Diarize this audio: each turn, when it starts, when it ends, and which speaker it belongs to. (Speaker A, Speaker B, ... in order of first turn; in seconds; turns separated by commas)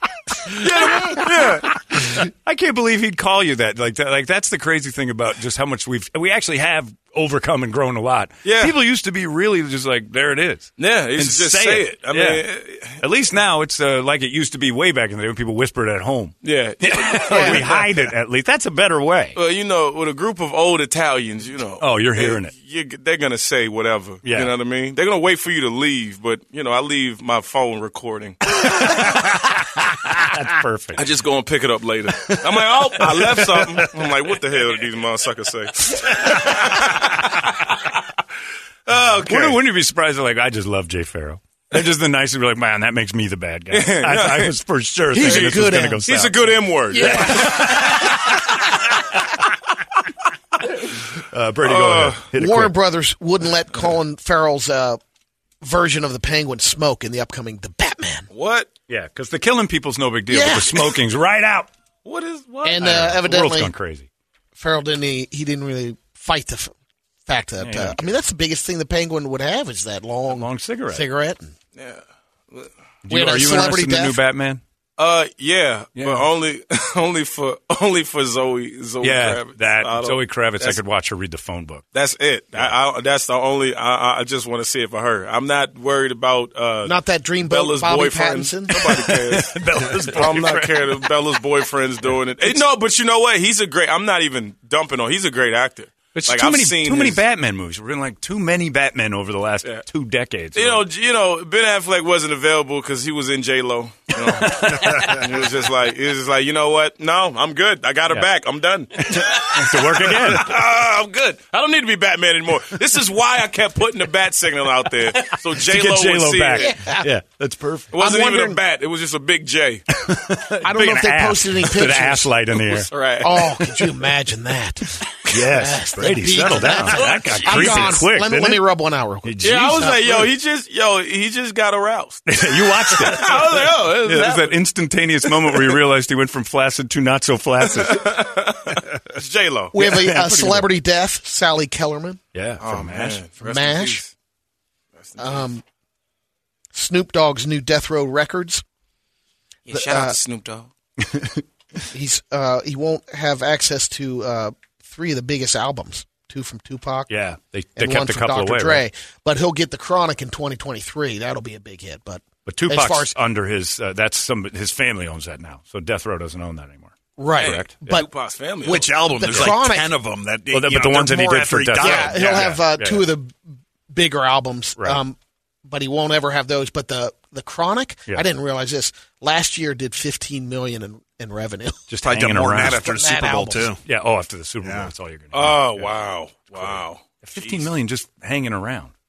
Speaker A: 0.5-1.8, Speaker B: 0.9-1.2, Speaker B: 1.9-12.4, Speaker A: 8.4-8.7, Speaker A: 10.8-12.9, Speaker B: 13.0-19.4, Speaker A: 16.4-18.1, Speaker C: 17.3-17.6, Speaker A: 19.3-28.4, Speaker B: 21.8-22.5, Speaker B: 24.2-24.5, Speaker B: 28.6-31.0, Speaker A: 30.9-37.6, Speaker B: 32.9-33.8, Speaker B: 35.9-36.8, Speaker A: 38.9-39.6, Speaker B: 39.3-46.5, Speaker A: 43.7-44.5, Speaker C: 45.1-46.0, Speaker A: 45.2-48.4, Speaker C: 46.9-47.7, Speaker B: 51.2-52.7, Speaker A: 51.6-52.2, Speaker C: 52.3-55.0, Speaker C: 55.6-58.3, Speaker A: 58.3-58.7, Speaker B: 58.9-61.7, Speaker C: 60.3-61.0, Speaker A: 62.0-62.8, Speaker C: 62.6-63.7, Speaker B: 62.8-64.1, Speaker C: 64.5-66.7, Speaker C: 67.2-71.5, Speaker B: 67.6-68.0, Speaker B: 70.3-71.0, Speaker A: 71.8-72.7, Speaker B: 73.0-74.6, Speaker C: 73.1-74.2, Speaker A: 75.0-80.8, Speaker B: 76.0-76.2, Speaker B: 79.0-81.8, Speaker A: 81.9-97.2, Speaker C: 86.8-88.9, Speaker B: 88.9-91.0, Speaker B: 96.1-100.8, Speaker A: 100.5-116.8, Speaker B: 104.4-105.2, Speaker B: 109.0-110.5, Speaker B: 115.6-117.9, Speaker C: 116.5-117.1, Speaker A: 117.9-119.8, Speaker C: 118.0-118.6, Speaker B: 120.0-122.9, Speaker C: 120.6-122.3, Speaker A: 122.5-123.6, Speaker C: 123.2-130.2, Speaker B: 125.3-128.7, Speaker A: 127.6-127.9, Speaker B: 129.2-129.8, Speaker A: 129.4-132.2, Speaker B: 132.2-138.2, Speaker A: 132.9-134.5, Speaker A: 135.3-135.7, Speaker A: 137.8-139.7, Speaker C: 139.7-142.2, Speaker B: 139.8-140.7, Speaker B: 142.3-143.2, Speaker A: 142.6-144.1, Speaker C: 143.4-144.0, Speaker A: 144.9-145.5, Speaker C: 145.2-145.6, Speaker C: 146.7-148.6, Speaker C: 149.7-150.2, Speaker A: 149.7-150.7, Speaker B: 151.1-151.4, Speaker C: 151.9-157.1, Speaker B: 157.1-158.8, Speaker C: 157.8-163.1, Speaker B: 162.4-167.7, Speaker C: 167.2-169.9, Speaker A: 167.4-169.5, Speaker D: 168.6-172.6, Speaker B: 170.5-173.1, Speaker C: 171.8-173.4, Speaker C: 173.9-175.2, Speaker C: 175.7-181.9, Speaker B: 181.9-182.8, Speaker D: 182.0-183.8, Speaker C: 182.6-183.7, Speaker B: 183.8-185.9, Speaker D: 184.6-184.9, Speaker A: 185.3-187.7, Speaker B: 186.5-188.9